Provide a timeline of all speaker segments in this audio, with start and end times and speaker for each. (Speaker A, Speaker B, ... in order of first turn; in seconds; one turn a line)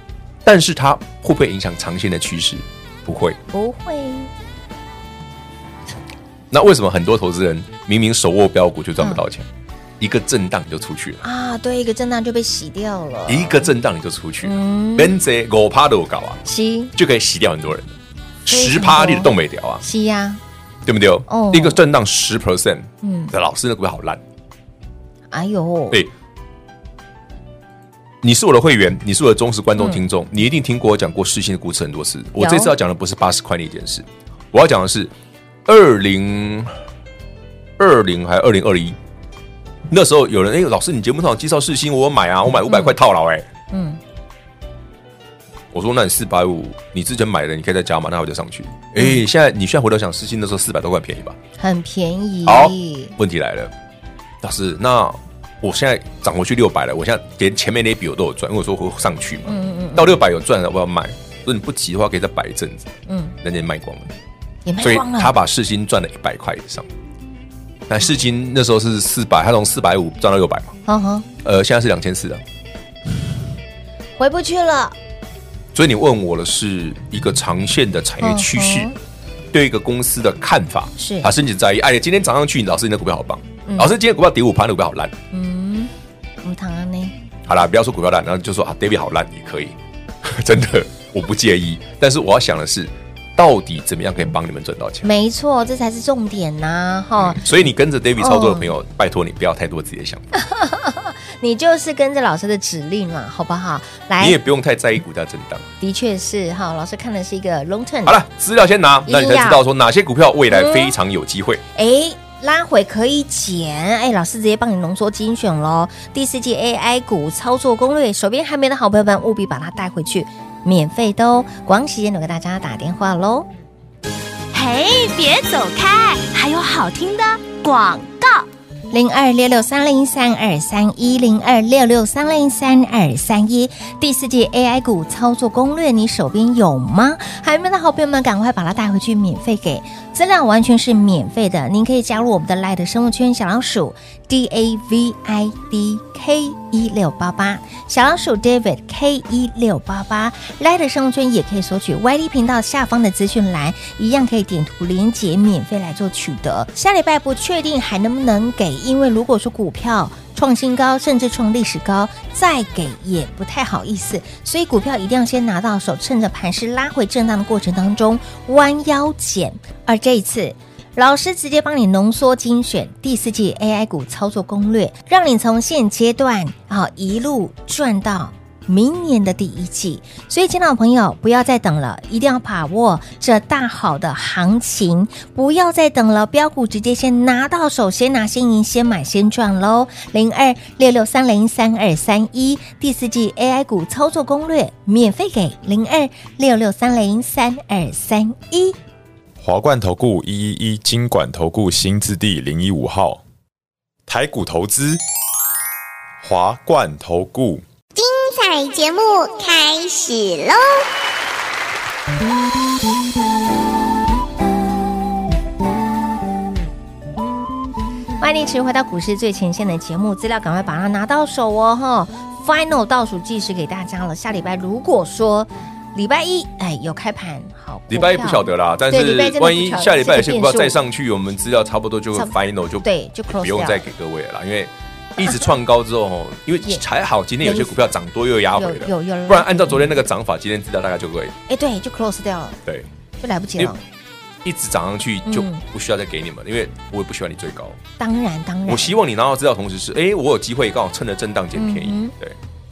Speaker A: 0.4-3.4
Speaker B: 3.5-4.3
Speaker A: 6.5-9.5
Speaker A: 10.0-11.2
Speaker B: 11.2-13.7
Speaker A: 13.3-16.4
Speaker B: 14.4-15.2
Speaker B: 16.4-16.9
Speaker A: 16.9-19.8
Speaker B: 18.5-20.4
Speaker A: 20.9-24.2
Speaker B: 21.3-21.8
Speaker B: 23.0-23.3
Speaker B: 25.3-26.0
Speaker A: 28.2-35.1
Speaker B: 29.8-30.0
Speaker B: 32.4-32.7
Speaker A: 35.6-36.7
Speaker A: 37.8-39.0
Speaker A: 39.9-43.5
Speaker B: 42.7-42.9
Speaker B: 43.7-44.0
Speaker A: 45.7-51.4
Speaker B: 51.6-53.1
Speaker A: 52.5-53.7
Speaker A: 54.4-64.1
Speaker B: 59.5-60.2
Speaker B: 63.1-63.3
Speaker B: 64.7-65.3
Speaker A: 64.8-66.9
Speaker A: 67.9-70.8
Speaker B: 70.8-71.3
Speaker A: 71.4-72.4
Speaker B: 74.2-75.0
Speaker A: 75.7-78.9
Speaker B: 78.2-79.0
Speaker A: 79.5-85.1
Speaker B: 81.0-81.3
Speaker B: 83.7-83.9
Speaker B: 85.3-85.9
Speaker B: 86.4-87.1
Speaker A: 87.5-95.1
Speaker B: 95.0-97.4
Speaker A: 97.2-100.2
Speaker B: 98.2-98.7
Speaker B: 100.3-104.4
Speaker A: 104.2-105.7
Speaker B: 105.8-108.2
Speaker A: 108.0-111.6
Speaker B: 109.1-109.6
Speaker B: 110.5-110.9
Speaker B: 111.7-123.5
Speaker C: 124.5-128.4
Speaker B: 128.9-198.8
Speaker D: 199.4-203.2
Speaker D: 204.1-205.0
Speaker D: 206.2-207.6
Speaker E: 207.9-210.8
Speaker B: 218.2-230.8
Speaker A: 227.9-241.3
Speaker B: 232.1-233.8
Speaker B: 237.4-237.9
Speaker B: 238.6-240.0
Speaker B: 241.5-242.6
Speaker B: 243.2-243.8
Speaker A: 244.4-247.8
Speaker B: 245.2-245.6
Speaker B: 248.0-249.0
Speaker A: 248.7-252.4
Speaker B: 251.5-252.1